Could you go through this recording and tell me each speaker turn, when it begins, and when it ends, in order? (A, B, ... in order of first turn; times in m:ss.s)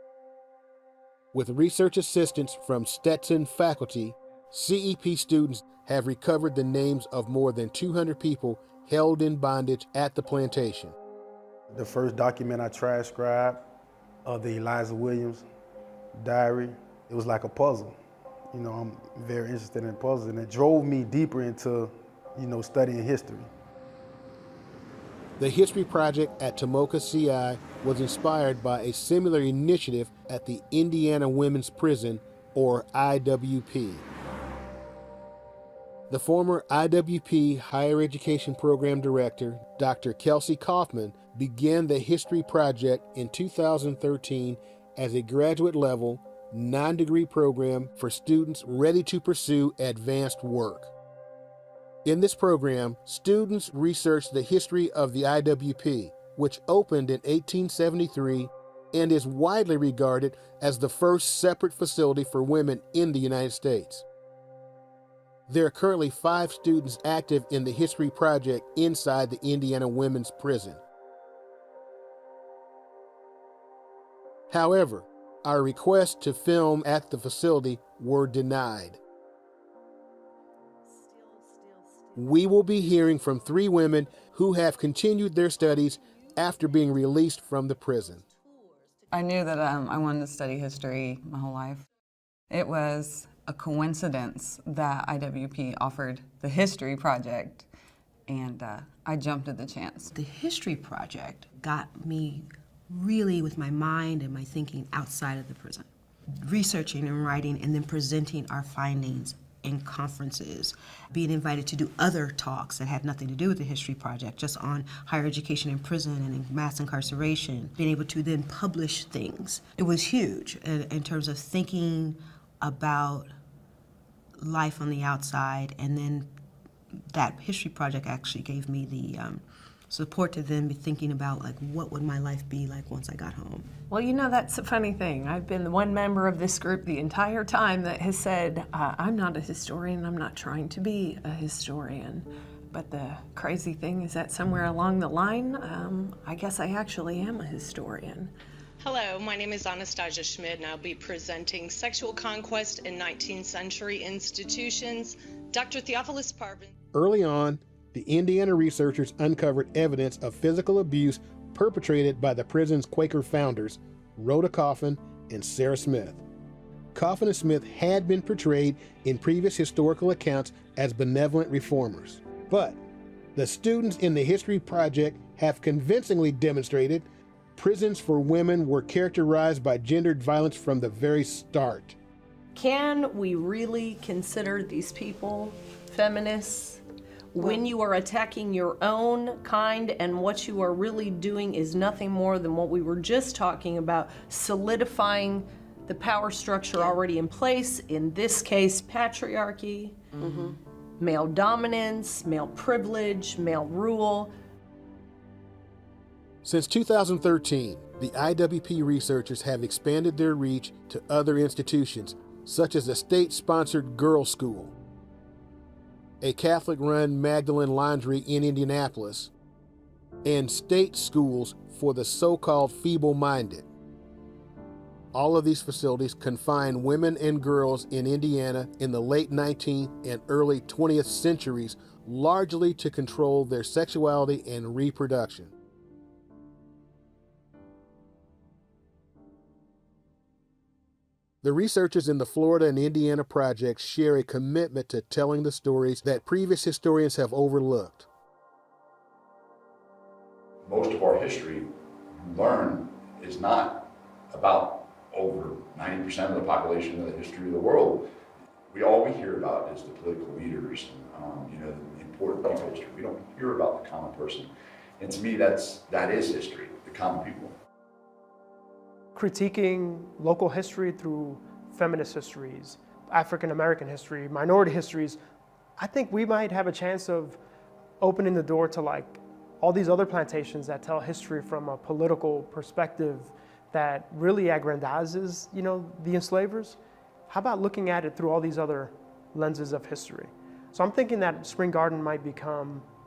0:01.3-0:11.0 A
0:11.7-0:13.6 B
0:14.2-0:15.4 B
0:16.2-0:18.0 B
0:18.5-0:23.5 B
0:25.4-0:34.1 A
0:36.1-0:50.9 A
0:52.0-1:04.0 A
1:05.5-1:10.8 A
1:14.5-1:19.0 A
1:22.2-1:28.2 A
1:29.1-1:31.9 C
1:32.5-1:37.7 C
1:38.3-1:40.1 C
1:40.1-2:03.3 D
2:04.4-2:06.3 D
2:07.1-2:13.7 D
2:13.9-2:28.3 E
2:28.8-2:36.7 F
2:36.9-2:46.2 A
2:46.9-2:52.8 A
2:53.4-3:02.0 A
3:02.6-3:06.8 E
3:07.3-3:20.0 E
3:20.2-3:20.6 D
3:21.0-3:24.3 E
3:26.4-3:34.7 A
3:36.2-3:39.3 A
3:40.2-3:43.7 A
3:45.1-3:55.5 A
4:01.4-4:08.1 A
4:10.6-4:18.1 G
4:18.7-4:27.6 G
4:29.2-4:35.2 H
4:35.8-4:37.4 H
4:38.0-4:46.8 H
4:47.3-4:52.9 H